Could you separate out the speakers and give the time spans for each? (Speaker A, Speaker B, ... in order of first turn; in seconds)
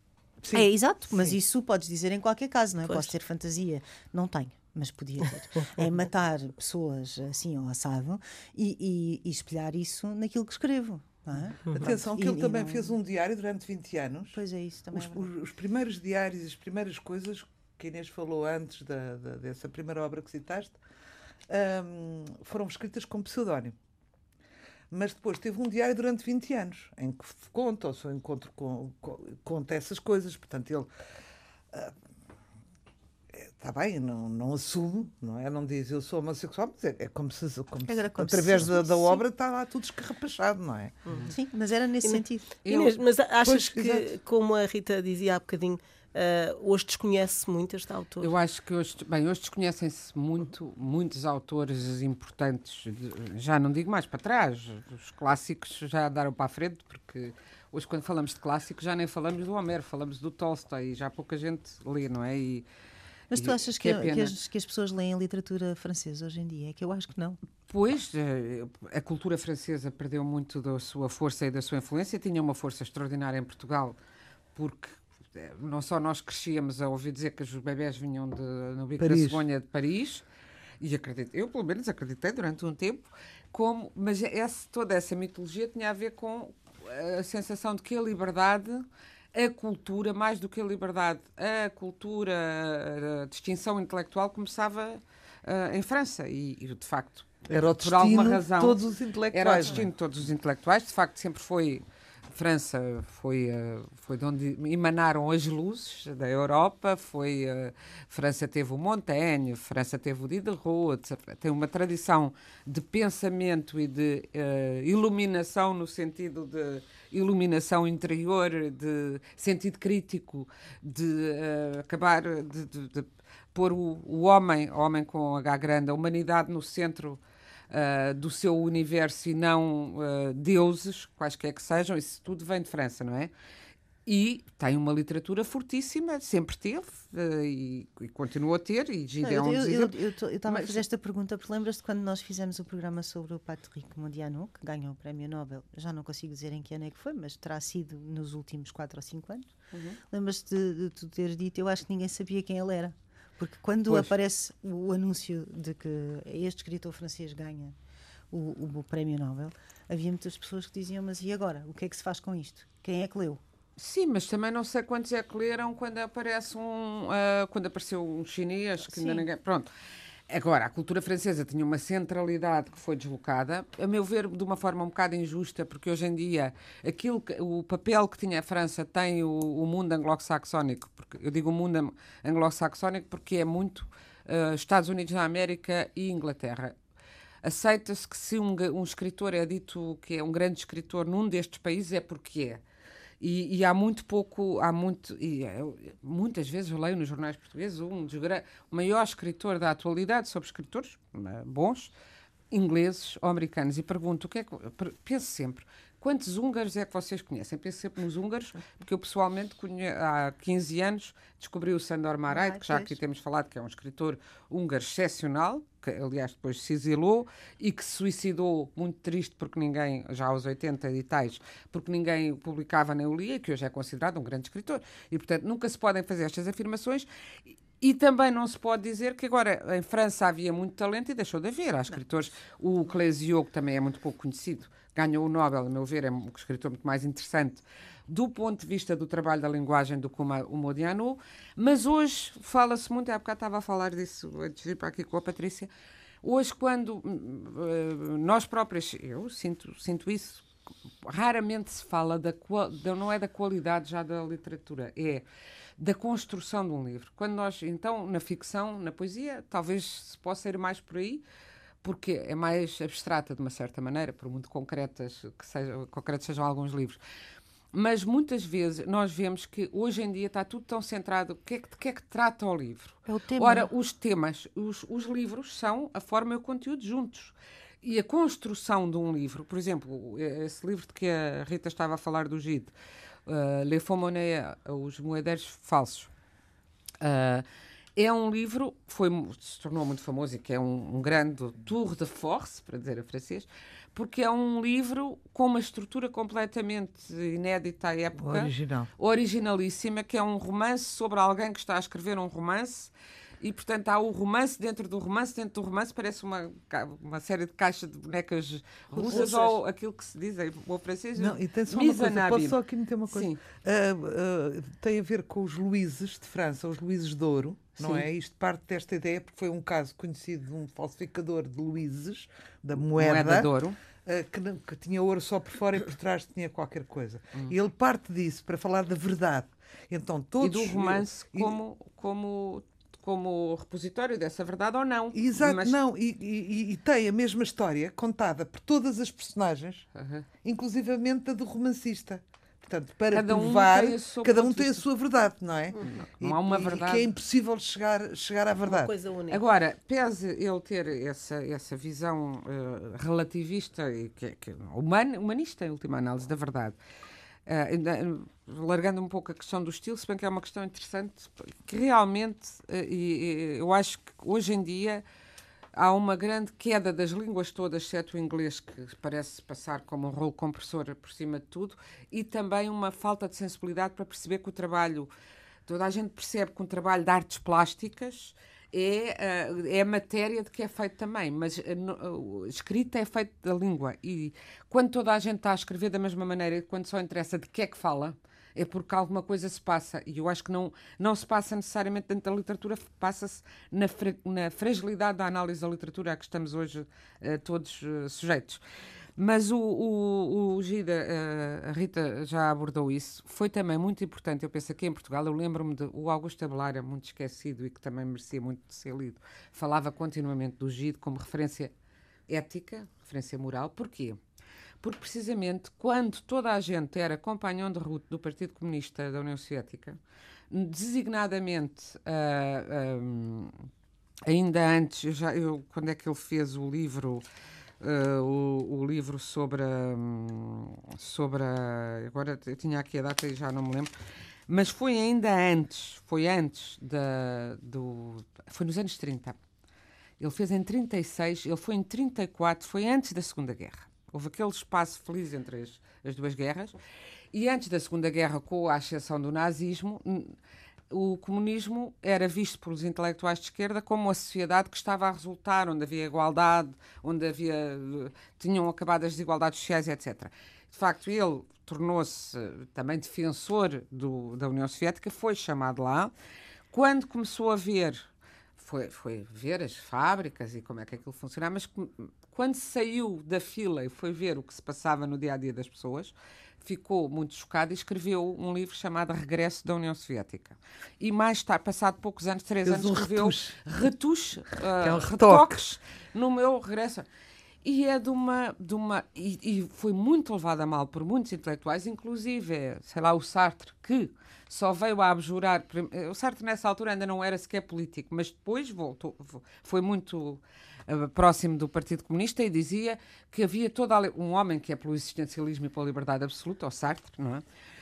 Speaker A: 0.4-1.4, 11.7-14.4, 14.9-20.8, 21.5-23.7, 24.9-30.9, 33.3-41.2, 43.4-44.1, 79.0-79.4, 97.5-99.9, 298.2-298.9, 308.9-309.6, 311.2-323.5, 324.0-331.6, 335.1-339.9, 340.4-348.9, 482.6-483.6, 484.8-485.6
Speaker B: 0.5-13.0, 14.3-15.3, 37.9-39.2, 41.3-42.5, 63.3-67.4, 139.2-149.5, 150.1-157.7, 158.3-163.4, 168.9-169.2, 212.3-212.9, 273.1-273.7
Speaker C: 41.1-41.3, 42.0-48.3, 348.6-349.4
Speaker D: 42.6-43.0, 48.2-62.6, 63.3-64.3, 67.7-74.0, 74.5-80.2, 80.8-97.3, 97.8-98.8, 99.3-101.8, 102.3-133.3, 134.1-139.9, 140.5-140.8, 149.7-150.0, 163.8-169.7, 170.3-186.7, 187.4-192.6, 193.2-201.9, 202.5-227.1, 227.8-245.7, 246.2-250.4, 251.0-255.2, 255.8-261.2, 261.8-267.0, 267.7-282.7, 283.2-286.1, 287.0-312.6, 313.1-313.4, 317.8-318.1, 322.9-323.8, 330.4-335.8, 339.9-340.3, 343.1-344.8, 345.8-347.1, 349.3-356.8, 357.4-365.0, 365.7-375.1, 375.7-398.6, 399.2-411.7, 412.3-414.2, 414.8-420.0, 420.5-423.6, 424.2-427.2, 427.8-433.9, 434.5-439.4, 440.2-446.8, 447.3-450.3, 450.9-466.1, 466.7-487.1, 487.6-507.4